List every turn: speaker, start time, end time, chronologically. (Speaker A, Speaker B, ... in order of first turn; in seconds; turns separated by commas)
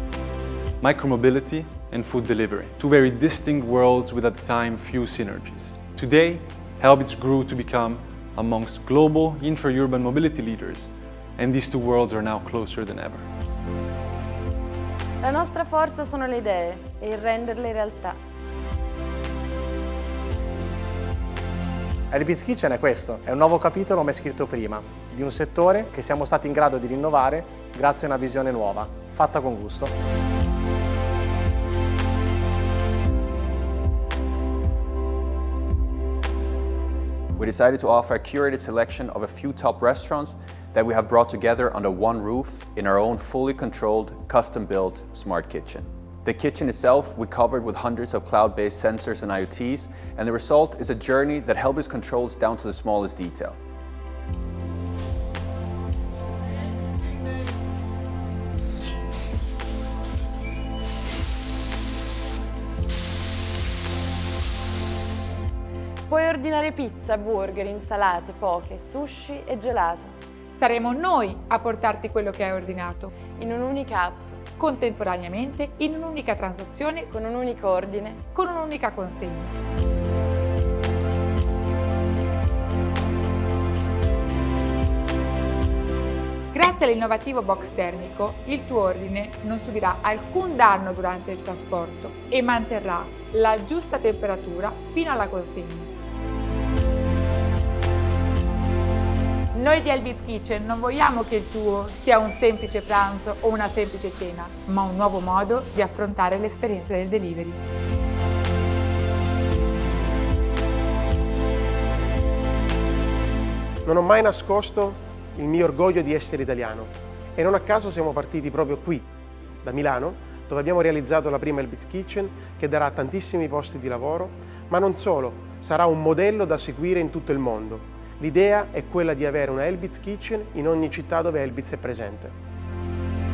Speaker A: 0.8-13.2, Speaker B: 15.2-18.2, Speaker C: 22.1-29.9, Speaker D: 37.4-53.6, Speaker B: 66.1-70.2, Speaker E: 70.5-73.1, Speaker B: 73.3-74.3, Speaker E: 74.6-77.1, Speaker B: 77.1-78.2, Speaker E: 78.3-79.5, Speaker E: 86.5-95.9, Speaker E: 99.5-107.6, Speaker F: 113.9-119.0, Speaker F: 119.6-132.3